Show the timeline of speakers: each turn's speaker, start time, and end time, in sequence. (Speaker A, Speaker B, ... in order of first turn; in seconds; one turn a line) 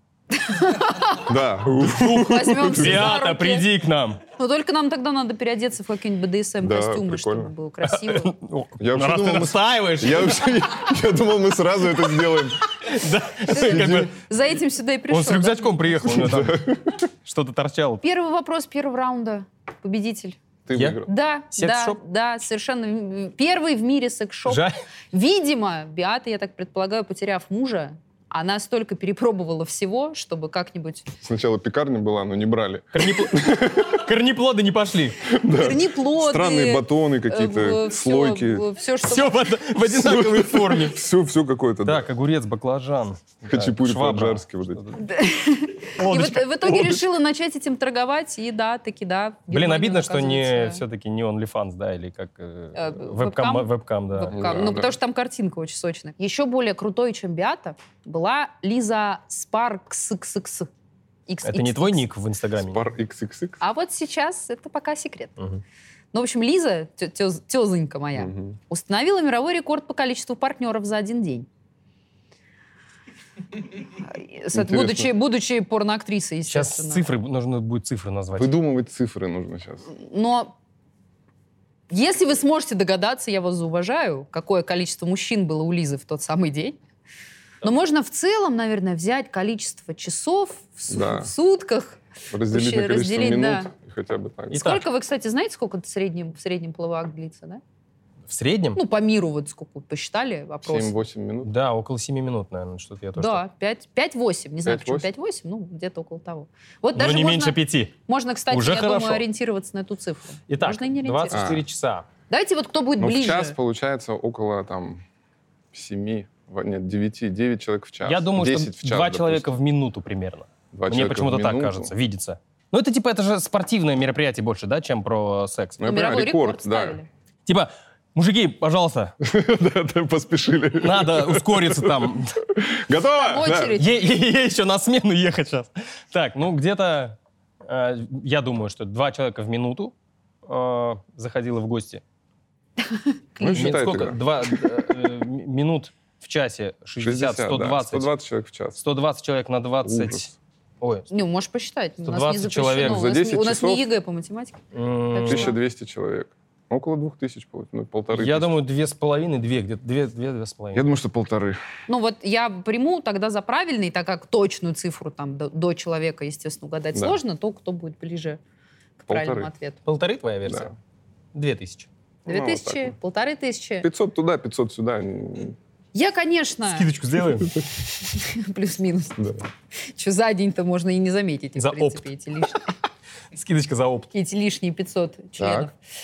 Speaker A: 0.4-1.2
Speaker B: 1.2-3.1
Speaker A: 1.9-3.7
Speaker C: 2.6-4.2
Speaker A: 4.4-8.3
Speaker B: 6.6-7.5
Speaker C: 7.8-10.5
Speaker B: 8.8-12.6
Speaker C: 12.8-14.1
Speaker B: 13.5-14.1
Speaker A: 13.5-15.7
Speaker C: 15.1-16.6
Speaker B: 16.0-17.0
Speaker C: 17.2-18.0
Speaker A: 18.0-20.4
Speaker B: 20.6-21.1
Speaker C: 20.7-22.0
Speaker A: 21.1-31.1
Speaker C: 24.4-24.8
Speaker B: 31.2-34.0
Speaker C: 32.9-35.2
Speaker B: 35.3-38.6
Speaker A: 35.6-39.3
Speaker C: 39.0-41.0
Speaker B: 39.9-42.1
Speaker C: 41.8-45.0
Speaker B: 43.4-44.8
Speaker A: 45.0-50.8
Speaker C: 46.0-47.0
Speaker C: 49.5-54.4
Speaker A: 52.7-60.7
Speaker B: 54.3-54.9
Speaker A: 61.3-62.0
Speaker C: 61.4-62.8
Speaker B: 62.6-63.6
Speaker A: 63.6-65.3
Speaker A: 66.1-71.5
Speaker B: 68.2-68.6
Speaker A: 74.0-77.0
Speaker B: 74.5-75.1
Speaker C: 76.5-78.5
Speaker B: 78.3-79.8
Speaker A: 79.9-80.5
Speaker A: 81.9-86.8
Speaker A: 87.6-92.0
Speaker B: 90.9-91.3
Speaker B: 92.3-94.7
Speaker A: 92.5-93.7
Speaker C: 94.5-94.8
Speaker A: 94.5-97.6
Speaker C: 98.3-98.8
Speaker A: 98.7-100.9
Speaker B: 100.6-101.5
Speaker C: 101.4-103.4
Speaker A: 103.2-111.5
Speaker B: 104.6-105.1
Speaker C: 107.0-108.0
Speaker C: 108.5-109.2
Speaker C: 110.5-112.1
Speaker B: 111.3-111.6
Speaker A: 112.3-113.5
Speaker B: 113.0-115.0
Speaker B: 115.7-119.5
Speaker C: 118.0-125.8
Speaker B: 120.7-121.9
Speaker B: 125.8-127.0
Speaker A: 125.8-127.1
Speaker C: 127.5-129.1
Speaker B: 129.2-133.8
Speaker C: 130.8-132.3
Speaker A: 133.2-133.9
Speaker C: 133.7-139.9
Speaker C: 140.4-142.0
Speaker A: 142.9-143.8
Speaker B: 143.4-144.2
Speaker C: 143.5-148.1
Speaker B: 147.0-148.8
Speaker C: 148.8-151.1
Speaker B: 149.8-150.3
Speaker A: 151.1-154.6
Speaker C: 152.1-153.1
Speaker B: 152.8-153.9
Speaker C: 154.7-155.5
Speaker A: 155.1-155.6
Speaker B: 155.3-158.5
Speaker C: 158.1-160.8
Speaker B: 160.7-161.6
Speaker A: 161.9-168.4
Speaker A: 169.0-169.8
Speaker B: 169.1-169.5
Speaker C: 169.8-170.7
Speaker B: 170.4-170.7
Speaker C: 171.3-171.9
Speaker B: 172.2-172.9
Speaker A: 172.2-173.9
Speaker B: 173.8-175.6
Speaker A: 175.9-176.9
Speaker C: 176.7-177.6
Speaker A: 178.0-179.3
Speaker B: 179.2-179.4
Speaker A: 179.9-182.7
Speaker C: 181.6-182.1
Speaker C: 183.3-184.1
Speaker A: 184.1-185.7
Speaker B: 185.4-185.7